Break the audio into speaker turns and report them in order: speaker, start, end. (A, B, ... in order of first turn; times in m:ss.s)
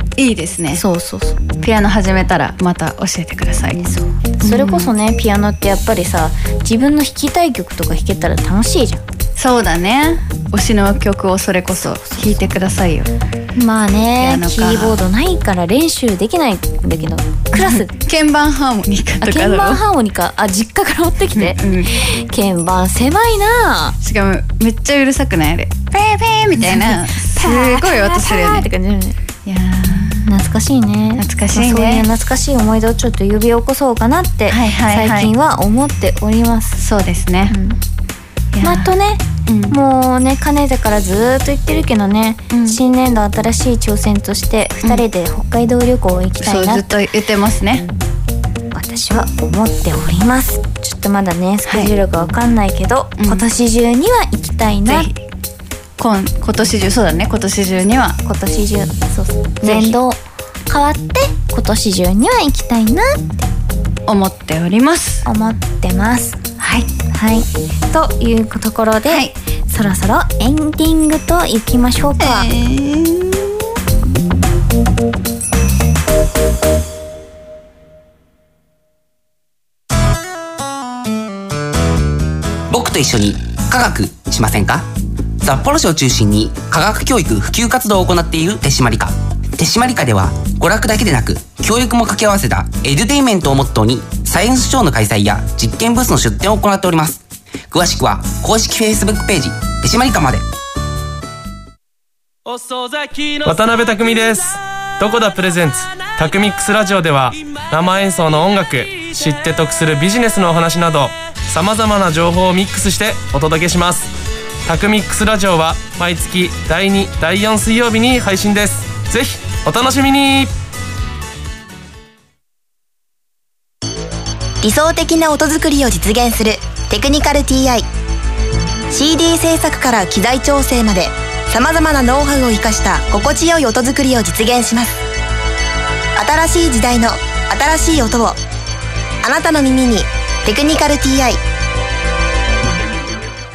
0:00.2-0:00.8 A
0:00.7-0:01.4 B
0:01.6-0:03.8 A
0:03.7-0:09.0 B
0:04.4-0:04.9 A
0:09.4-0:13.1 A
0:11.7-0:12.5 B
0:13.5-0:17.9 B
0:14.2-0:15.0 A
0:17.5-0:19.8 A
0:19.2-0:24.0 B
0:21.3-0:22.0 A
0:24.0-0:28.7 A
0:26.6-0:29.2 B
0:29.4-0:30.2 A
0:29.9-0:36.8 B
0:31.2-0:32.0 A
0:34.5-0:35.3 A
0:36.8-0:37.6 A
0:37.5-0:37.8 B
0:38.5-0:38.9 A
0:38.6-0:46.9 B
0:39.4-0:39.8 A
0:42.5-0:42.8 A
0:46.4-0:47.8 A
0:48.7-0:55.1 B
0:53.2-0:53.4 A
0:54.9-0:55.2 A
0:56.0-0:58.2 A
0:58.2-1:03.5 B
0:59.6-1:00.0 A
1:04.1-1:05.2 A
1:05.2-1:06.4 B
1:06.6-1:06.9 A
1:07.1-1:12.5 B
1:09.0-1:09.3 A
1:12.2-1:13.6 A
1:22.7-1:24.9 C
1:25.4-1:40.4 C
1:42.4-1:54.1 D
1:54.6-2:00.5 D
2:04.6-2:07.9 E
2:08.9-2:15.0 E
2:16.2-2:18.4 E
2:19.2-2:21.4 E